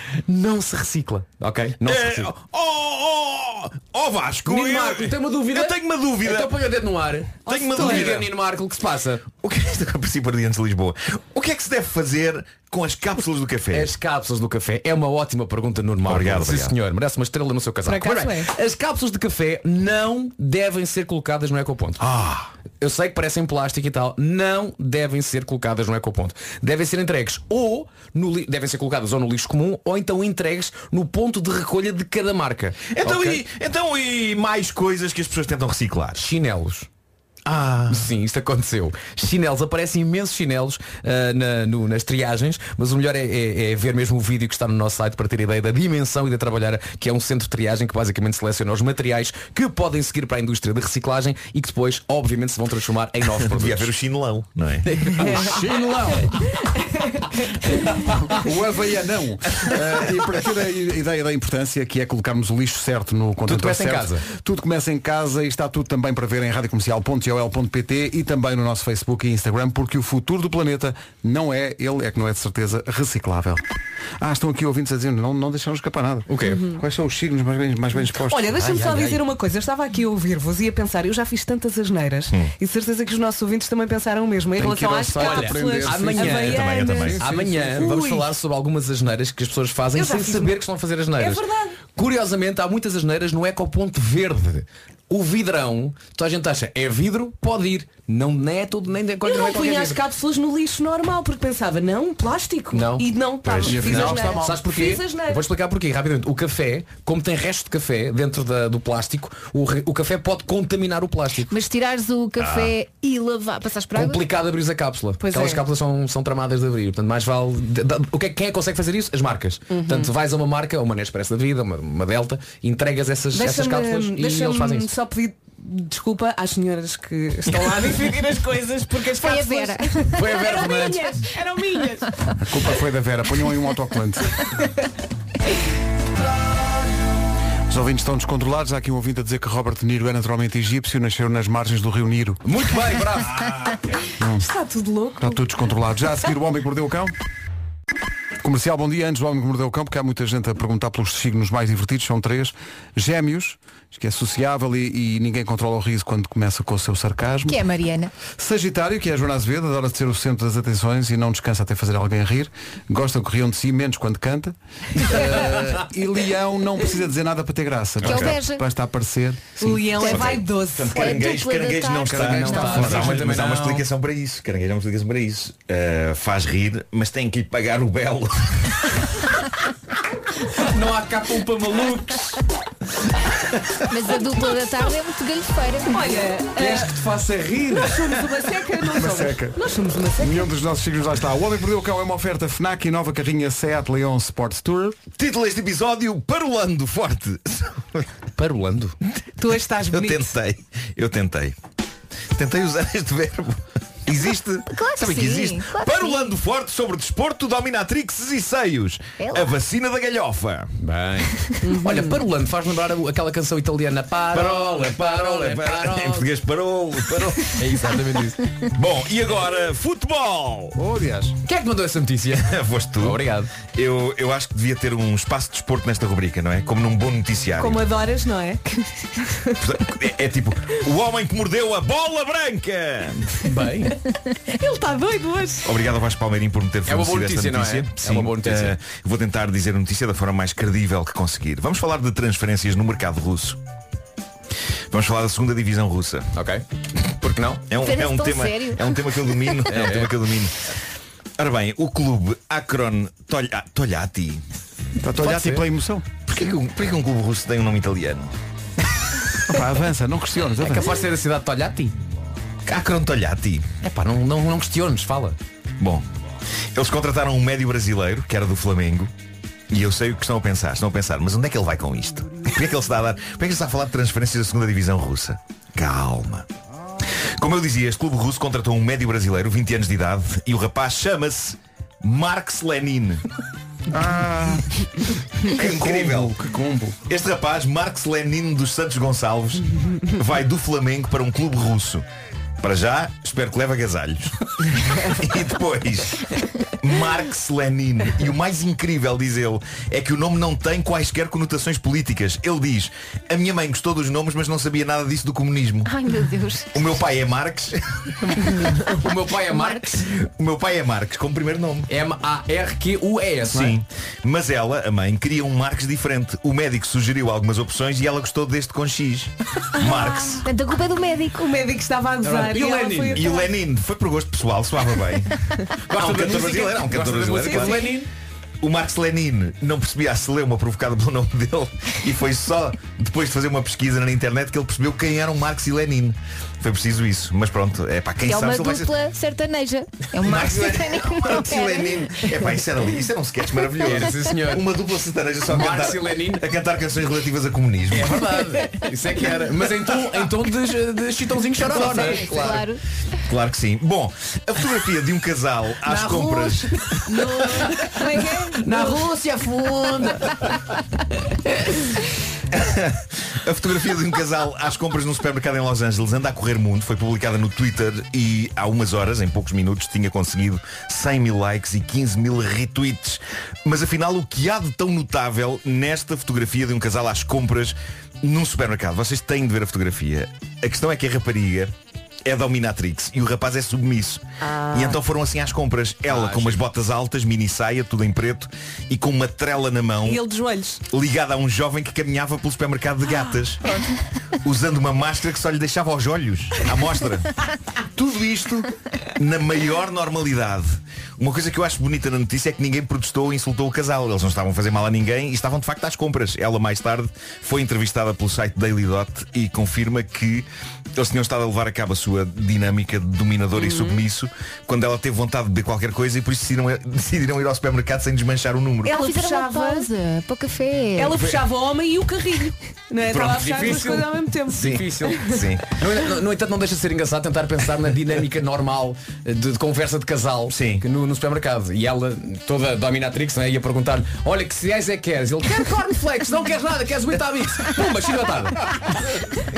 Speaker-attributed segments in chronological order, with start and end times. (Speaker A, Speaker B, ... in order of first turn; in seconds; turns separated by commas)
Speaker A: 0.3-2.4, Speaker B: 1.9-6.6, Speaker A: 4.5-9.3, Speaker B: 7.5-8.3, Speaker C: 7.5-8.2, Speaker B: 9.4-13.9, Speaker A: 13.7-22.0, Speaker B: 16.0-16.8, Speaker C: 17.9-18.5, Speaker B: 22.0-22.5, Speaker A: 22.8-33.4, Speaker B: 32.9-36.2, Speaker A: 36.2-36.9, Speaker B: 37.5-38.0, Speaker A: 37.9-53.9, Speaker B: 53.5-54.9, Speaker A: 54.8-55.8, Speaker D: 55.2-56.3, Speaker A: 58.0-58.4, Speaker D: 58.2-73.6, Speaker A: 63.5-64.2, Speaker D: 74.2-78.5, Speaker A: 76.3-76.7, Speaker C: 76.4-76.8, Speaker C: 78.2-88.3, Speaker A: 78.5-79.2, Speaker D: 84.6-87.9, Speaker A: 85.2-100.0, Speaker B: 86.5-87.2, Speaker C: 89.9-90.6, Speaker C: 91.2-91.8, Speaker C: 99.2-105.5, Speaker A: 102.7-111.5, Speaker D: 103.7-104.6, Speaker E: 111.5-114.2, Speaker B: 112.4-112.7, Speaker A: 114.0-124.9, Speaker C: 115.2-115.6, Speaker C: 119.7-120.1, Speaker C: 123.3-132.1, Speaker E: 129.2-130.2, Speaker A: 130.1-131.2, Speaker D: 132.4-134.4, Speaker D: 137.7-142.4, Speaker A: 142.4-143.5, Speaker D: 144.2-144.5, Speaker C: 144.4-145.4, Speaker D: 145.2-147.1, Speaker D: 148.4-157.6, Speaker E: 157.4-158.1, Speaker D: 158.4-169.9, Speaker E: 168.0-168.6, Speaker C: 169.6-171.1, Speaker E: 169.9-172.9, Speaker B: 170.0-178.8, Speaker D: 172.0-173.4, Speaker A: 172.2-173.8, Speaker A: 180.6-182.4, Speaker E: 183.9-186.3, Speaker C: 185.9-186.9, Speaker A: 186.6-188.0, Speaker D: 187.3-187.8, Speaker C: 187.7-190.5, Speaker D: 189.0-189.6, Speaker D: 190.2-195.0, Speaker B: 195.2-198.1, Speaker A: 198.4-199.0, Speaker C: 199.4-200.3, Speaker B: 199.9-201.6, Speaker B: 202.3-210.7, Speaker E: 204.7-206.3, Speaker E: 209.2-209.6, Speaker A: 210.8-216.3, Speaker C: 211.6-212.2, Speaker B: 214.3-217.6, Speaker A: 217.6-218.4, Speaker B: 218.8-220.8, Speaker D: 220.8-221.4, Speaker A: 221.5-223.5, Speaker B: 222.4-227.8, Speaker C: 227.6-228.6, Speaker C: 229.3-229.5, Speaker B: 229.6-233.3, Speaker A: 233.4-234.0, Speaker C: 234.5-235.7, Speaker B: 235.7-243.6, Speaker A: 236.9-238.8, Speaker B: 244.9-246.3, Speaker A: 246.3-246.6, Speaker B: 247.2-250.5, Speaker A: 247.3-247.7, Speaker E: 247.8-249.5, Speaker A: 249.7-250.2, Speaker B: 251.4-254.4, Speaker D: 255.0-256.1, Speaker A: 255.2-255.7, Speaker B: 256.3-258.3, Speaker D: 259.5-260.9, Speaker A: 260.6-261.9, Speaker B: 262.7-263.7, Speaker A: 263.8-265.4, Speaker B: 265.8-266.1, Speaker B: 266.8-269.1, Speaker B: 269.7-276.5, Speaker B: 277.4-283.2, Speaker D: 283.9-284.8, Speaker B: 285.5-286.3, Speaker D: 285.5-287.0, Speaker B: 287.1-292.0, Speaker B: 292.6-294.4, Speaker B: 295.1-296.2, Speaker B: 296.8-305.9, Speaker E: 305.9-306.9, Speaker B: 306.7-308.1, Speaker A: 308.8-310.0, Speaker E: 309.5-309.9, Speaker B: 310.1-311.9, Speaker A: 311.9-313.8, Speaker B: 313.5-320.4, Speaker E: 320.4-321.6, Speaker C: 321.4-323.5, Speaker A: 322.2-323.4, Speaker B: 323.2-325.3, Speaker A: 325.9-328.1, Speaker B: 325.9-327.9, Speaker C: 327.4-328.0, Speaker B: 328.6-338.9, Speaker E: 338.2-342.4, Speaker B: 340.2-348.2, Speaker A: 343.8-344.7, Speaker A: 345.5-346.5, Speaker A: 347.9-352.7, Speaker E: 351.7-352.8, Speaker C: 351.8-352.2, Speaker B: 353.3-356.8, Speaker A: 355.9-356.3, Speaker C: 357.1-359.1, Speaker A: 358.6-360.4, Speaker B: 362.5-381.7, Speaker B: 382.3-390.2, Speaker C: 384.4-384.9, Speaker A: 386.1-386.6, Speaker C: 390.1-390.8, Speaker B: 390.9-393.6, Speaker B: 394.4-397.3, Speaker B: 398.0-410.5, Speaker B: 411.0-418.9, Speaker C: 413.6-414.0, Speaker C: 418.8-419.9, Speaker E: 418.9-421.2, Speaker C: 421.0-425.4, Speaker A: 423.1-438.8, Speaker B: 424.6-425.7, Speaker B: 430.5-430.8